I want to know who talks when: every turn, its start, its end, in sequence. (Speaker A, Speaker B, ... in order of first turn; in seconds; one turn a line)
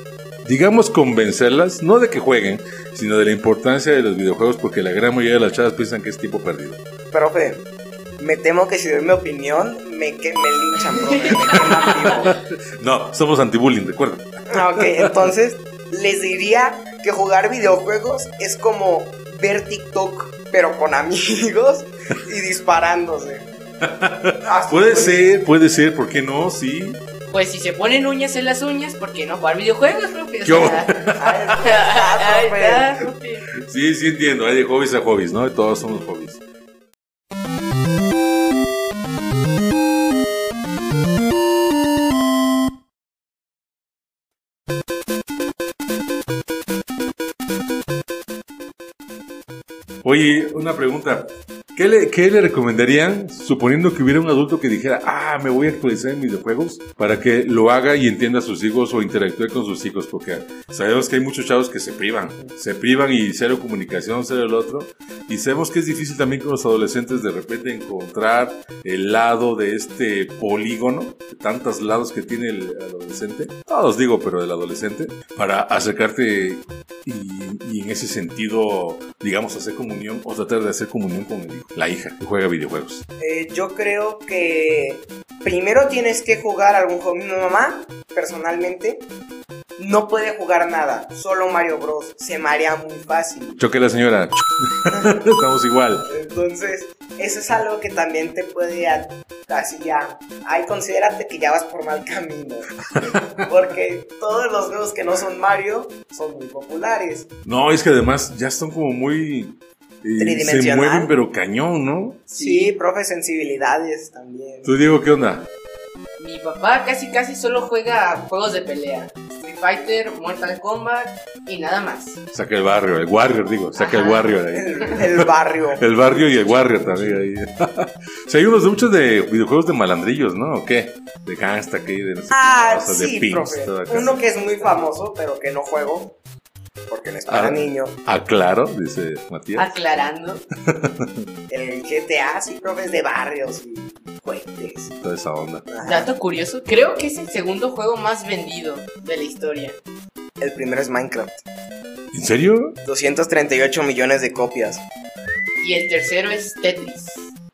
Speaker A: 0.4-6.8
Speaker B: 7.1-7.6
Speaker B: 8.2-12.3
Speaker C: 10.9-12.1
Speaker A: 11.5-15.3
Speaker B: 14.5-23.5
Speaker A: 23.8-27.0
Speaker B: 24.4-25.3
Speaker C: 27.3-31.0
Speaker A: 30.4-31.5
Speaker B: 31.2-33.1
Speaker C: 31.6-33.5
Speaker A: 33.6-36.4
Speaker A: 50.0-83.0
Speaker B: 83.2-89.1
Speaker B: 89.8-93.6
Speaker A: 93.6-96.1
Speaker B: 94.9-95.2
Speaker B: 96.1-107.3
Speaker A: 103.0-103.2
Speaker A: 107.4-112.2
Speaker B: 110.2-111.1
Speaker B: 112.3-114.7
Speaker C: 112.3-112.8
Speaker A: 114.6-115.5
Speaker C: 116.2-122.2
Speaker A: 122.3-134.2
Speaker C: 123.8-125.0
Speaker B: 124.5-127.2
Speaker B: 132.3-136.2
Speaker C: 134.3-134.8
Speaker B: 136.9-138.0
Speaker A: 137.3-139.7
Speaker C: 139.6-140.4
Speaker A: 140.7-141.2
Speaker B: 141.5-144.9
Speaker A: 144.9-145.6
Speaker B: 145.7-146.1
Speaker C: 145.8-149.8
Speaker B: 150.4-151.4
Speaker A: 152.1-152.8
Speaker B: 152.8-154.8
Speaker C: 155.6-157.3